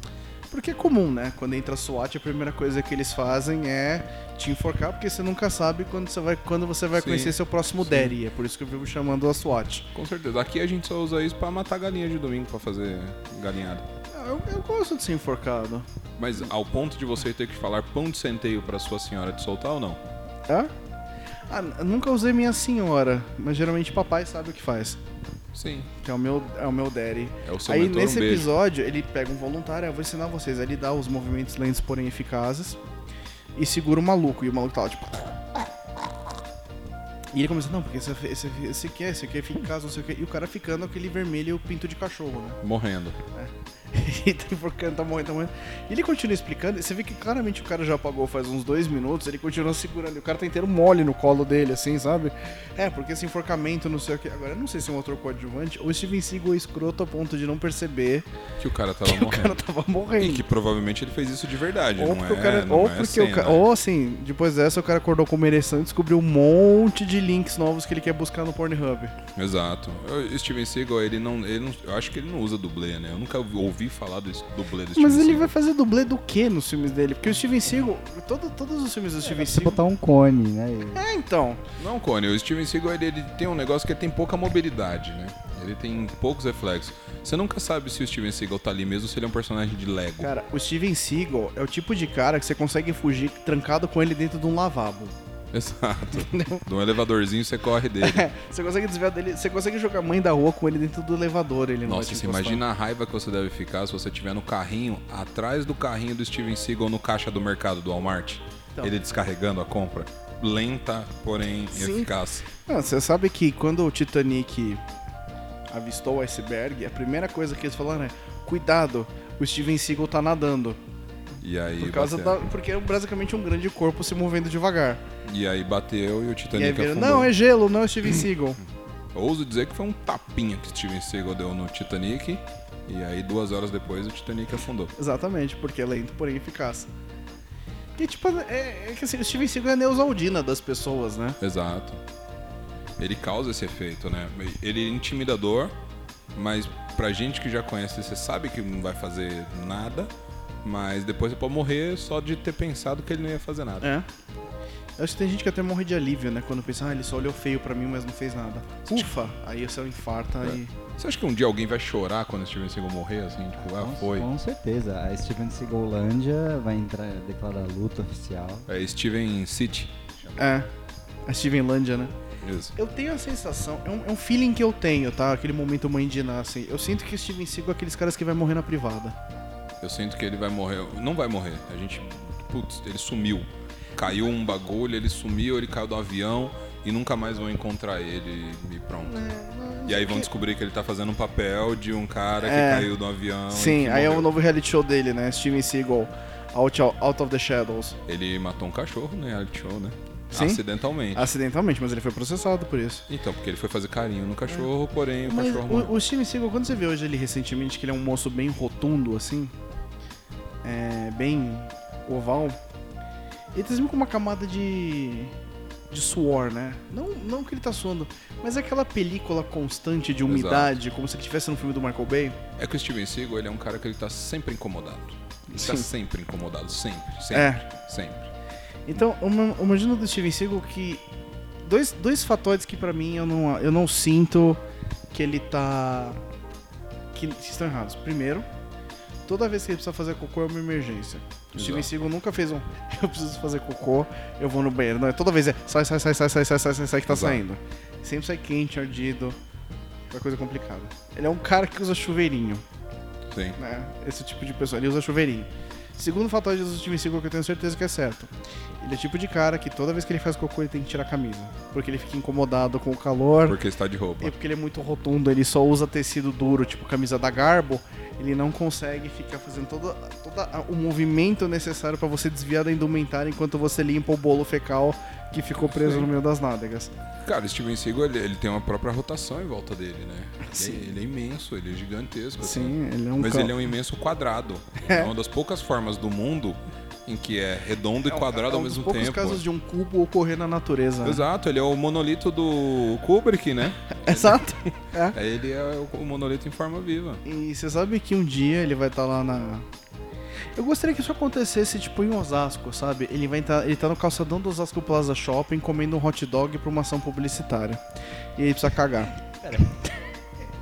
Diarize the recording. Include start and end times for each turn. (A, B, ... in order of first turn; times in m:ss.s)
0:00.5-0:09.9 A
0:06.9-0:08.2 B
0:09.9-0:13.8 B
0:14.1-0:15.8 A
0:16.2-0:20.0 B
0:21.5-0:25.0 A
0:25.5-0:25.9 B
0:26.0-0:32.8 A
0:27.4-0:28.5 B
0:33.6-0:35.6 A
0:37.3-0:42.6 A
0:42.6-0:43.2 B
0:43.3-0:58.3 A
0:58.6-0:59.6 B
0:59.0-1:00.4 A
1:00.2-1:03.6 B
1:02.0-1:09.1 A
1:09.4-1:15.5 B
1:15.0-1:19.8 A
1:19.2-1:21.0 C
1:20.9-1:21.6 A
1:21.8-1:30.3 B
1:30.2-1:35.1 A
1:35.5-1:38.3 B
1:36.2-1:36.6 A
1:38.0-1:42.6 A
1:41.8-1:52.5 B
1:51.7-1:52.1 A
1:52.6-1:54.8 A
1:55.7-2:00.8 A
2:01.4-2:02.4 B
2:01.8-2:05.0 A
2:05.2-2:07.3 B
2:06.5-2:08.6 A
2:09.1-2:14.9 B
2:15.0-2:16.9 A
2:18.0-2:21.4 A
2:21.4-2:22.0 B
2:23.0-2:25.7 B
2:26.3-2:30.1 B
2:30.6-2:33.9 B
2:35.0-2:40.7 A
2:40.4-2:44.3 B
2:43.6-2:48.7 C
2:48.7-2:50.0 B
2:50.4-2:50.7 A
2:51.2-2:52.1 A
2:52.4-2:52.7 B
2:52.8-2:59.2 A
2:59.8-3:09.2 B
3:09.0-3:10.3 A
3:09.8-3:14.3 B
3:12.4-3:12.9 A
3:13.5-3:18.0 A
3:18.1-3:21.3 B
3:20.3-3:20.6 A
3:21.1-3:23.1 A
3:23.1-3:25.9 B
3:25.2-3:29.5 A
3:30.6-3:32.6 A
3:33.5-3:35.3 A
3:35.9-3:42.4 A
3:40.3-3:40.7 B
3:42.6-3:48.3 B
3:45.5-3:45.8 A
3:47.3-3:47.6 A
3:48.9-3:51.0 A
3:51.6-3:54.6 A
3:55.1-3:56.2 A
3:57.1-3:58.4 A
3:59.2-4:09.4 A
4:01.5-4:01.9 B
4:07.1-4:07.4 B
4:10.1-4:12.6 A
4:13.3-4:13.6 B
4:13.6-4:23.6 A
4:23.4-4:24.3 B
4:24.2-4:36.9 A
4:35.7-4:36.1 B
4:37.2-4:49.4 B
4:40.4-4:40.8 A
4:42.4-4:43.6 A
4:44.8-4:45.1 A
4:48.1-4:51.2 A
4:51.0-4:57.2 B
4:54.0-4:55.2 A
4:57.2-4:59.6 A
5:00.6-5:07.8 A
5:08.4-5:09.1 A
5:09.2-5:09.9 C